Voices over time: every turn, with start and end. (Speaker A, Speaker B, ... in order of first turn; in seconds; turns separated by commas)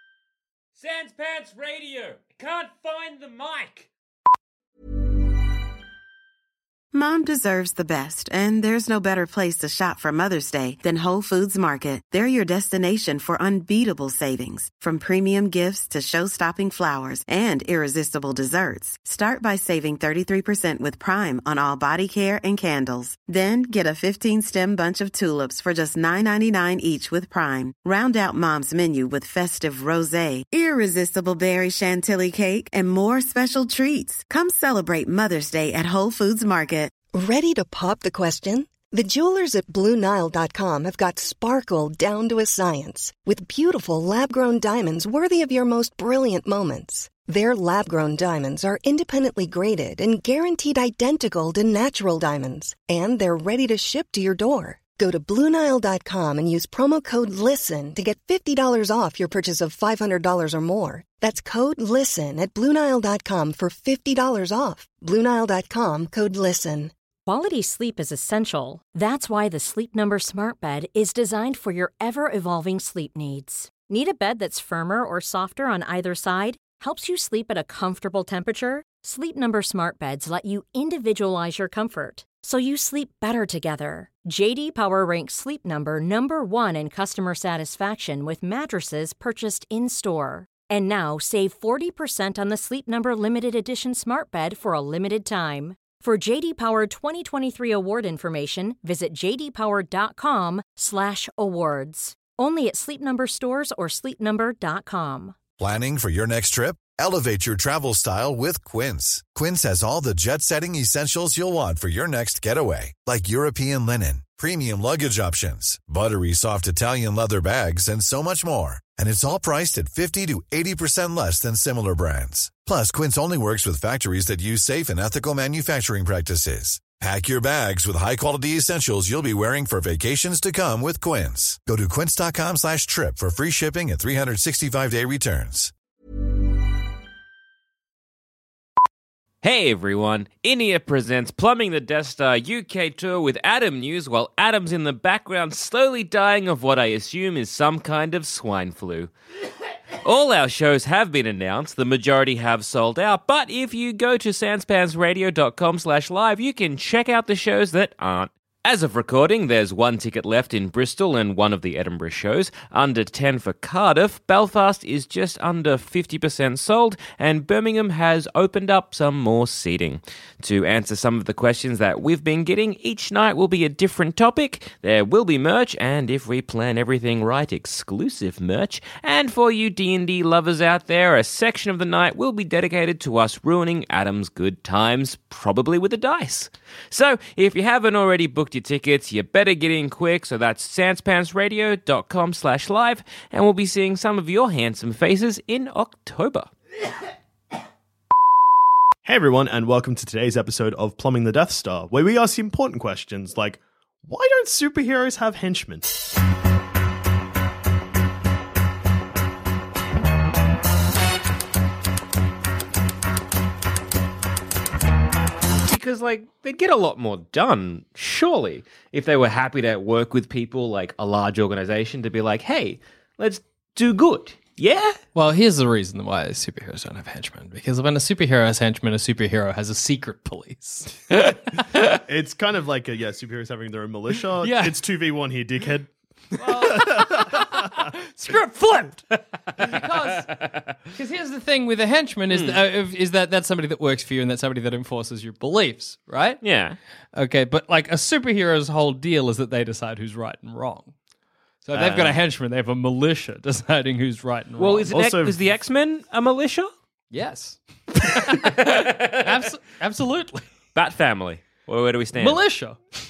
Speaker A: 0.8-3.9, Speaker B: 6.9-36.9, Speaker C: 37.1-66.9, Speaker D: 67.2-105.3, Speaker E: 105.6-135.7, Speaker A: 139.4-149.1, Speaker A: 150.0-196.5, Speaker F: 199.0-205.9, Speaker A: 215.6-225.0, Speaker G: 225.1-231.3, Speaker F: 232.1-237.4, Speaker G: 234.4-234.8, Speaker G: 236.4-239.0, Speaker G: 239.6-240.3, Speaker A: 239.6-240.6, Speaker G: 240.9-246.4, Speaker A: 242.3-242.6, Speaker A: 246.4-246.8, Speaker G: 247.1-250.9, Speaker G: 251.6-254.9, Speaker A: 251.7-252.2, Speaker A: 254.6-256.7, Speaker F: 254.9-255.3, Speaker G: 257.1-260.4, Speaker A: 258.2-259.3, Speaker A: 260.7-262.4, Speaker G: 262.1-262.8